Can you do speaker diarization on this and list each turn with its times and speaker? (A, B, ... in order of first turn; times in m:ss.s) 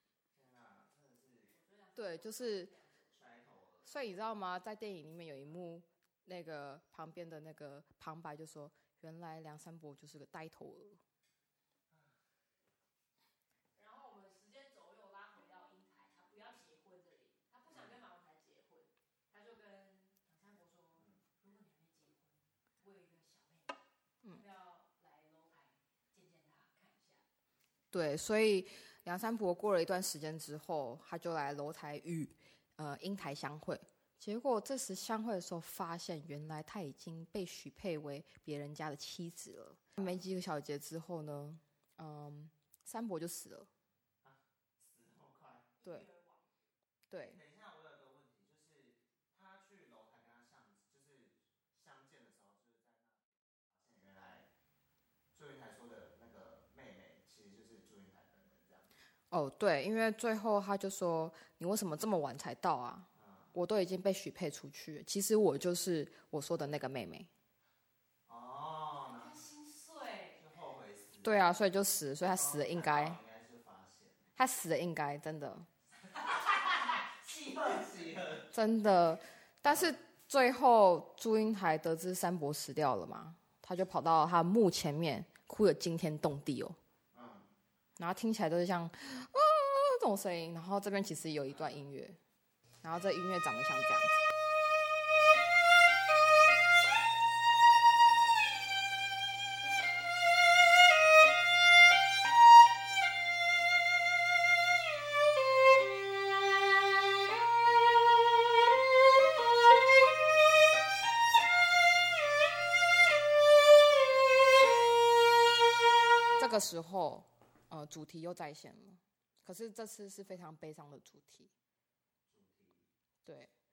0:00.3-0:01.5 A
0:01.5-0:03.1 B
0:02.0-0:02.7 C
0:03.1-0:04.2 A
0:03.8-0:11.0 C
0:13.7-0:23.8 B
0:17.7-0:18.0 A
0:24.3-0:27.2 B
0:27.9-0:43.7 C
0:44.2-0:45.7 A
0:45.8-0:46.5 B
0:47.1-0:47.4 C
0:47.2-0:54.5 A
0:55.3-0:58.9 A
0:59.3-1:07.3 C
1:03.1-1:03.6 A
1:08.2-1:09.4 A
1:09.1-1:10.4 B
1:10.4-1:11.6 A
1:11.2-1:13.2 C
1:12.2-1:14.3 A
1:14.4-1:15.7 C
1:16.3-1:16.8 B
1:16.6-1:18.5 A
1:18.5-1:26.8 C
1:19.6-1:19.9 A
1:27.1-1:27.5 A
1:28.0-1:32.2 C
1:31.5-1:31.7 A
1:32.8-1:34.2 C
1:56.4-2:01.5 C
2:02.3-2:02.9 A
2:03.2-2:03.5 C